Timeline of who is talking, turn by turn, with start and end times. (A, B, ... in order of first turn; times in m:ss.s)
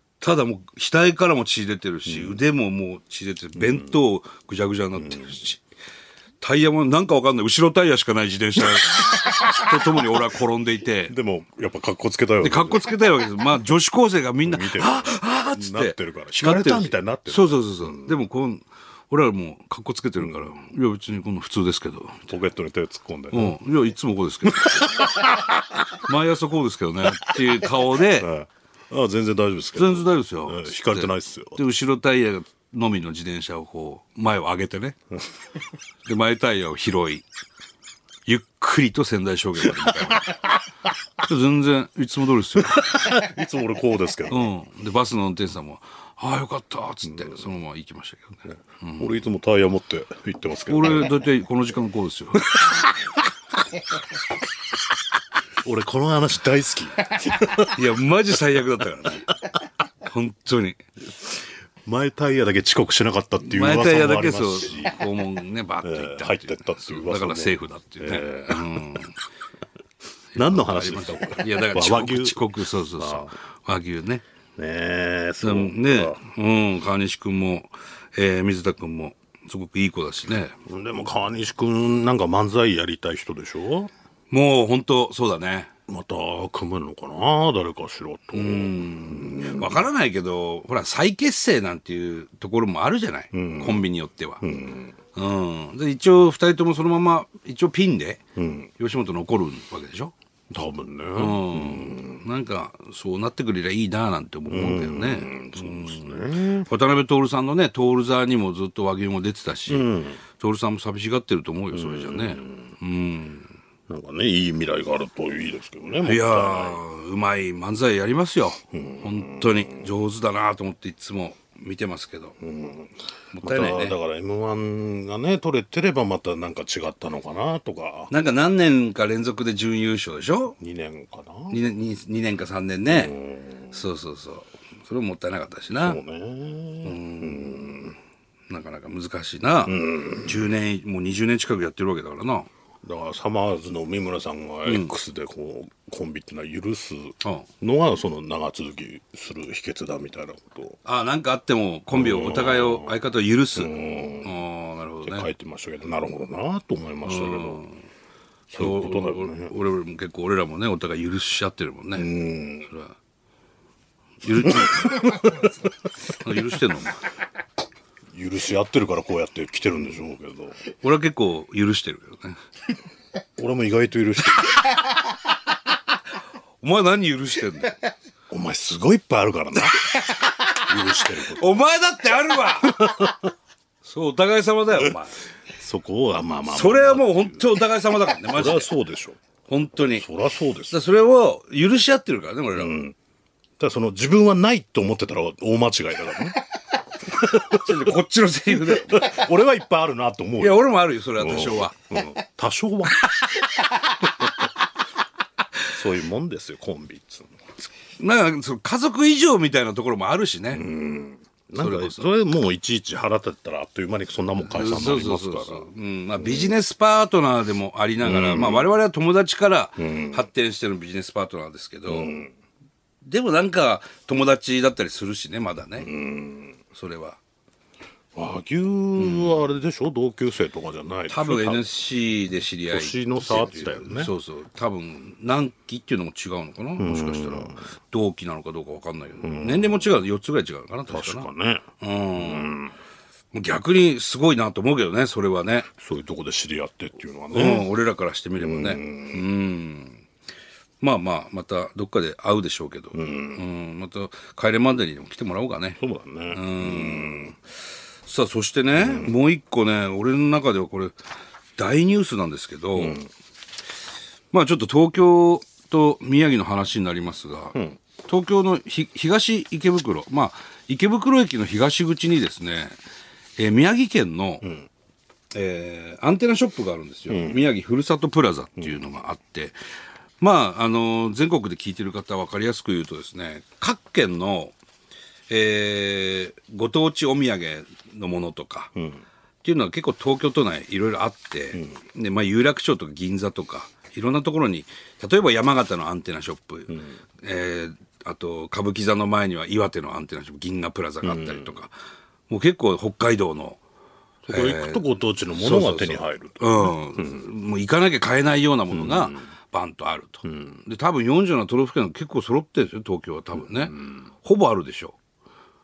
0:00.2-0:05.6 A
0:02.0-0:02.4 B
0:03.6-0:04.0 B
0:05.0-0:05.4 B
0:06.4-0:11.1 A
0:09.2-0:09.5 B
0:11.1-0:12.9 B
0:12.4-0:22.4 A
0:14.4-0:18.2 B
0:20.2-0:20.5 B
0:22.3-0:23.6 B
0:23.3-0:25.0 A
0:24.4-0:25.8 B
0:26.0-0:28.3 A
0:27.1-0:31.6 B
0:29.8-0:35.0 A
0:36.0-0:37.2 A
0:38.2-0:40.4 A
0:41.2-0:43.0 A
0:42.6-0:44.5 B
0:44.3-0:49.2 A
0:47.1-0:47.4 B
0:49.0-0:51.2 B
0:50.7-0:52.6 A
0:52.5-0:53.1 B
0:55.6-0:57.8 B
0:57.7-0:59.4 A
1:00.0-1:00.8 A
1:01.2-1:05.0 B
1:03.4-1:09.2 A
1:05.8-1:08.8 B
1:10.3-1:14.2 A
1:10.4-1:13.3 B
1:14.6-1:16.2 B
1:15.4-1:20.6 A
1:20.6-1:23.9 B
1:24.3-1:25.7 A
1:25.9-1:29.8 B
1:28.3-1:34.4 A
1:33.3-1:33.8 B
1:34.4-1:34.9 B
1:35.1-1:38.2 A
1:38.4-1:38.7 B
1:38.8-1:40.1 A
1:40.5-1:42.2 B
1:41.2-1:53.5 A
1:44.5-1:46.7 B
1:49.7-1:50.2 B
1:51.7-1:52.7 B
1:53.9-1:56.8 B
1:56.0-2:02.4 A
1:58.7-1:59.9 B
2:02.4-2:08.1 B
2:03.3-2:04.0 A
2:08.1-2:10.6 A
2:10.6-2:11.6 B
2:11.5-2:13.1 A
2:12.9-2:13.8 B
2:13.7-2:16.0 A
2:15.7-2:18.0 B
2:16.8-2:17.8 A
2:18.5-2:22.5 A
2:19.6-2:20.4 B
2:22.8-2:30.8 B
2:24.6-2:24.9 A
2:27.2-2:27.5 A
2:30.8-2:35.3 A
2:31.9-2:32.9 B
2:33.5-2:34.4 B
2:35.0-2:37.6 B
2:37.0-2:37.8 A
2:38.5-2:39.5 B
2:38.6-2:42.1 A
2:41.9-2:42.7 B
2:42.7-2:42.9 A
2:44.2-2:45.3 A
2:44.4-2:45.5 B
2:46.1-2:47.0 A
2:48.1-2:50.6 B
2:50.8-2:52.4 A
2:53.4-2:54.8 B
2:56.6-2:57.8 A
2:58.3-3:01.6 B
3:01.3-3:02.9 A
3:02.6-3:03.3 B
3:03.8-3:05.2 A
3:05.5-3:07.6 B
3:06.5-3:08.7 A
3:08.2-3:09.2 B
3:09.5-3:10.1 A
3:09.8-3:10.8 B
3:10.7-3:12.8 A
3:12.5-3:13.0 B
3:13.6-3:16.4 B
3:17.0-3:17.9 B
3:17.3-3:19.2 A
3:18.5-3:23.3 B
3:20.4-3:21.7 A
3:24.0-3:24.3 B
3:25.7-3:27.4 B
3:28.0-3:30.6 A
3:30.5-3:36.6 B
3:31.6-3:32.0 A
3:34.4-3:42.2 A
3:38.0-3:38.7 B
3:39.8-3:40.3 B
3:41.9-3:42.3 B
3:43.0-3:45.9 A
3:45.8-3:46.6 B
3:46.7-3:47.2 A
3:48.1-3:51.6 B
3:49.0-3:49.4 A
3:51.1-4:01.3 A
3:52.7-3:54.1 B
3:56.8-3:57.6 B
3:59.2-3:59.9 B
4:00.9-4:02.7 B
4:01.8-4:02.6 A
4:03.3-4:05.7 A
4:05.7-4:07.7 B
4:07.3-4:10.0 A
4:08.4-4:09.2 B
4:10.8-4:15.8 A
4:12.9-4:13.4 B
4:15.8-4:17.4 B
4:16.3-4:17.4 A
4:18.0-4:21.0 A
4:18.8-4:19.2 B
4:21.6-4:23.0 A
4:22.7-4:23.1 B
4:24.3-4:32.8 A
4:33.4-4:34.4 A
4:34.4-4:34.7 B
4:35.3-4:39.6 A
4:37.1-4:37.4 B
4:38.6-4:38.9 B
4:40.2-4:44.5 A
4:45.3-4:48.7 A
4:48.7-4:49.0 B
4:49.4-5:01.7 A
4:56.7-4:57.0 B
5:01.0-5:01.6 B
5:02.3-5:03.6 A
5:04.2-5:07.2 B
5:04.3-5:15.0 A
5:08.7-5:09.3 B
5:10.2-5:10.6 B
5:13.4-5:14.0 B